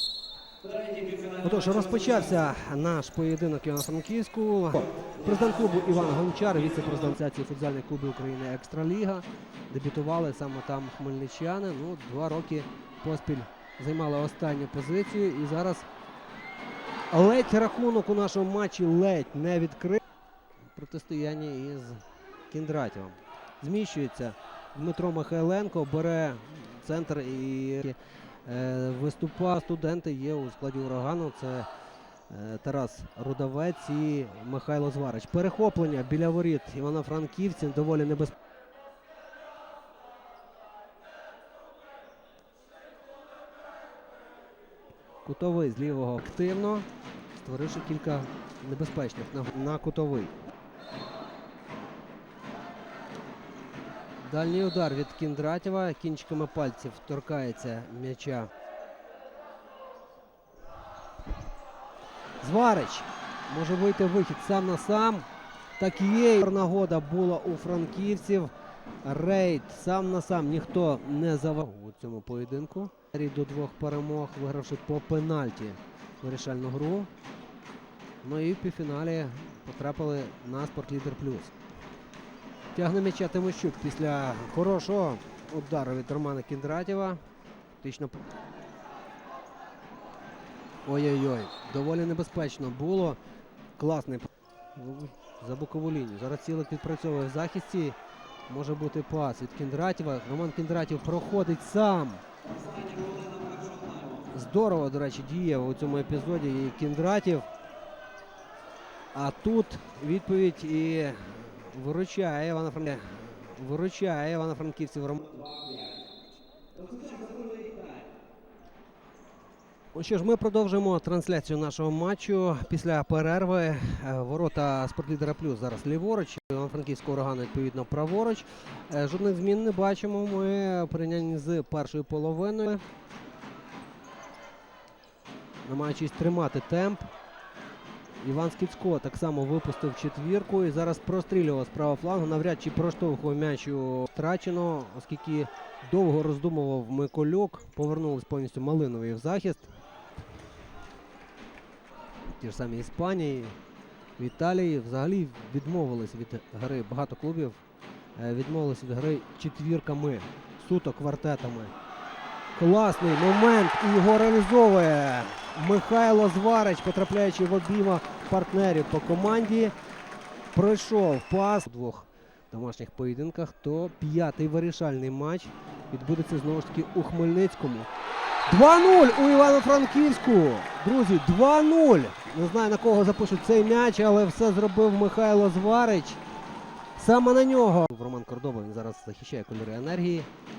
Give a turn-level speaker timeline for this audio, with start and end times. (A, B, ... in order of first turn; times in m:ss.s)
0:01.0-0:15.9 A
0:17.1-0:20.0 A
0:20.7-0:31.7 A
0:32.3-0:38.4 A
0:45.2-0:50.4 A
0:54.2-0:58.5 A
1:02.4-1:05.3 A
1:05.8-1:08.5 A
1:09.0-1:17.1 A
1:18.2-1:21.5 A
1:22.7-1:27.2 A
1:27.8-1:28.2 A
1:30.8-1:33.2 A
1:33.8-1:42.2 A
1:44.2-1:47.5 A
1:49.1-1:55.7 A
1:59.9-2:12.8 A
2:15.6-2:17.1 A
2:18.2-2:29.7 A
2:32.4-2:33.6 A
2:34.2-2:37.6 A
2:38.2-2:41.7 A
2:42.5-2:49.7 A
2:50.5-2:57.9 A
2:58.5-3:06.2 A
3:07.0-3:10.3 A